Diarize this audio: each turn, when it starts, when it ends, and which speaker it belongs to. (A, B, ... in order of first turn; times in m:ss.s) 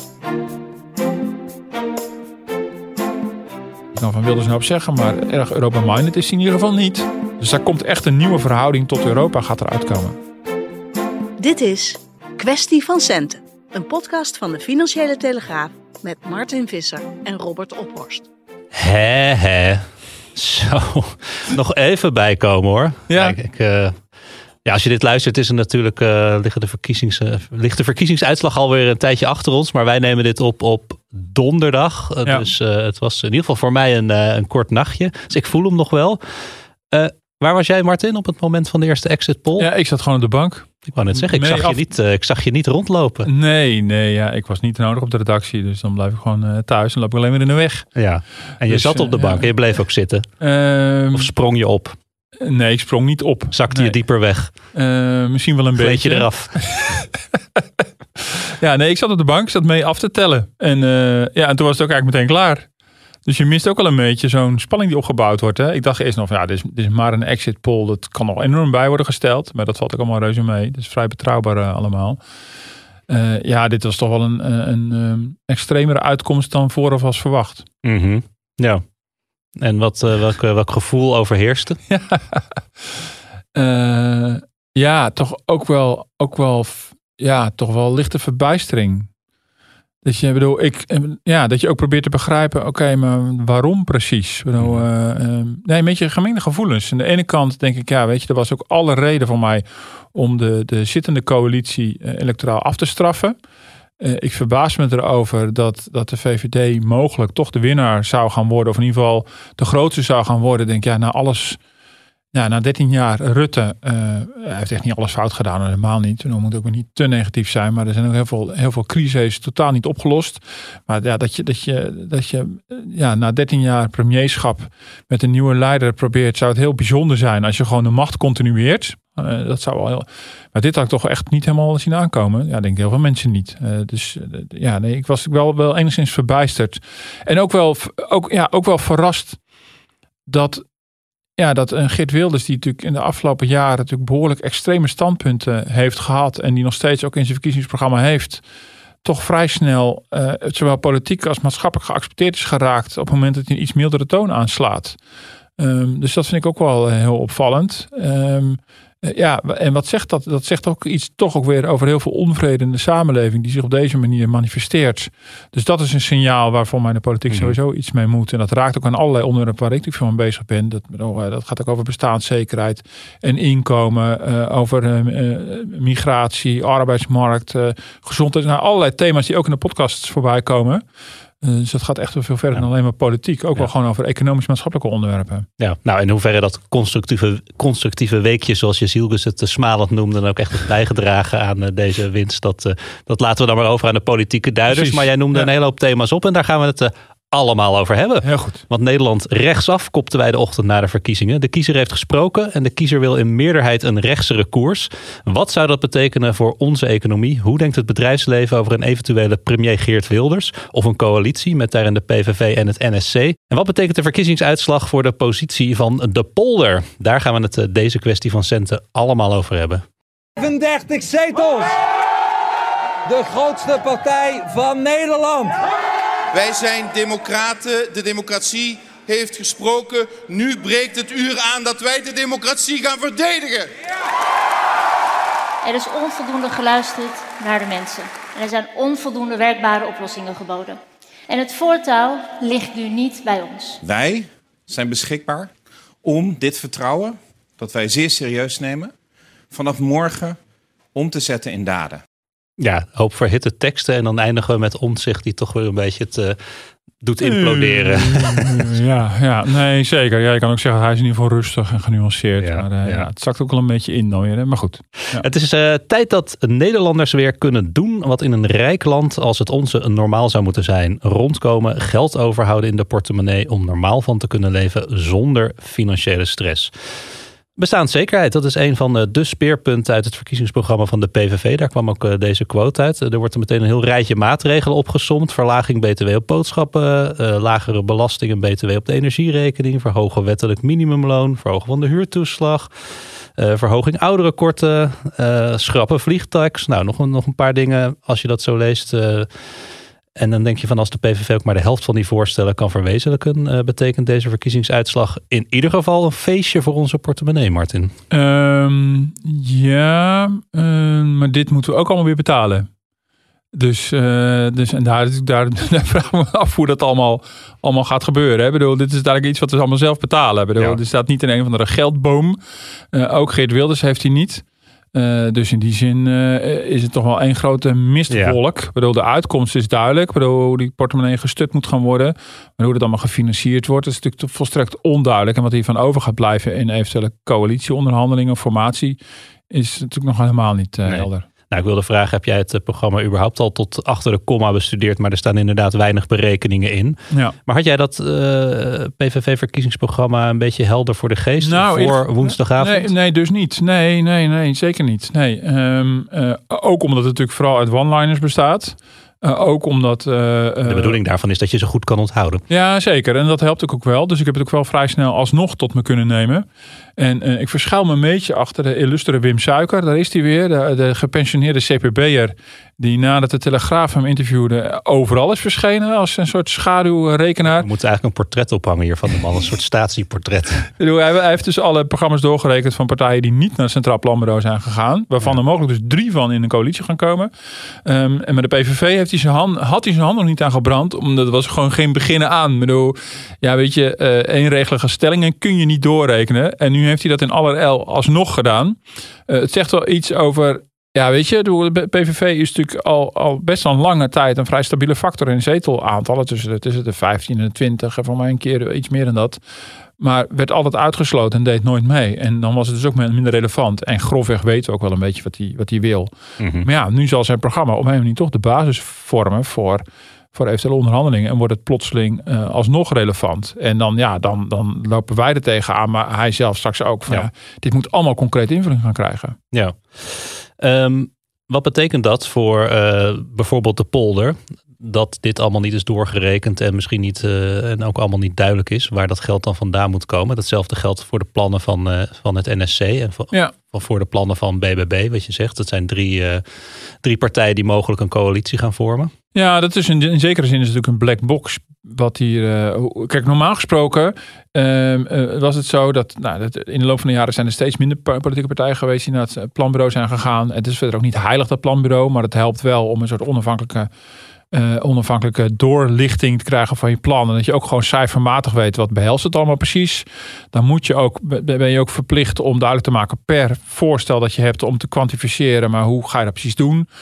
0:03.9-0:10.2 A
0:11.4-0:18.3 B
0:18.7-0:24.0 C
0:23.1-0:23.4 A
0:24.6-0:39.7 C
0:39.6-0:41.8 A
0:40.8-0:43.3 C
0:43.2-0:47.9 A
0:47.9-0:50.3 C
0:48.7-0:49.5 A
0:50.4-0:51.3 A
0:51.1-0:52.0 C
0:52.4-0:54.0 A
0:53.5-0:54.5 C
0:54.7-1:02.7 A
0:55.8-0:56.6 C
1:03.2-1:12.2 A
1:13.1-1:17.6 A
1:17.8-1:18.8 C
1:19.6-1:21.8 C
1:21.9-1:23.0 A
1:23.5-1:29.1 A
1:30.0-1:43.4 A
1:44.0-1:51.6 A
1:52.3-2:19.4 A
2:20.3-2:20.7 A
2:21.4-2:28.4 A
2:29.0-2:35.0 A
2:35.6-3:00.8 A
2:47.3-2:47.5 C
3:01.4-3:05.5 A
3:05.6-3:39.8 C
3:14.7-3:15.5 A
3:18.2-3:18.6 A
3:40.4-3:41.7 D
3:43.0-3:45.6 D
3:46.3-3:53.7 E
3:55.6-4:03.8 F
4:03.8-4:05.5 G
4:06.0-4:08.9 G
4:09.5-4:10.4 G
4:10.9-4:12.0 G
4:12.6-4:16.4 C
4:17.0-4:18.7 C
4:17.2-4:25.2 A
4:22.4-4:23.1 C
4:25.0-4:36.7 C
4:37.6-4:52.7 C
4:53.4-4:59.4 C
5:00.2-5:07.9 C
5:08.1-5:12.7 A
5:13.5-5:22.4 A
5:22.9-5:39.0 A
5:28.1-5:28.4 C
5:39.5-5:41.2 A
5:40.8-5:52.9 C
5:51.4-6:01.0 A
6:00.6-6:02.4 C
6:02.5-6:06.4 A
6:07.0-6:17.7 A
6:17.6-6:20.7 C
6:20.8-6:27.3 A
6:27.8-6:49.4 A
6:50.0-7:09.4 A
6:56.4-6:56.7 C
7:09.5-7:29.1 C
7:29.3-7:43.9 A
7:44.5-7:56.9 A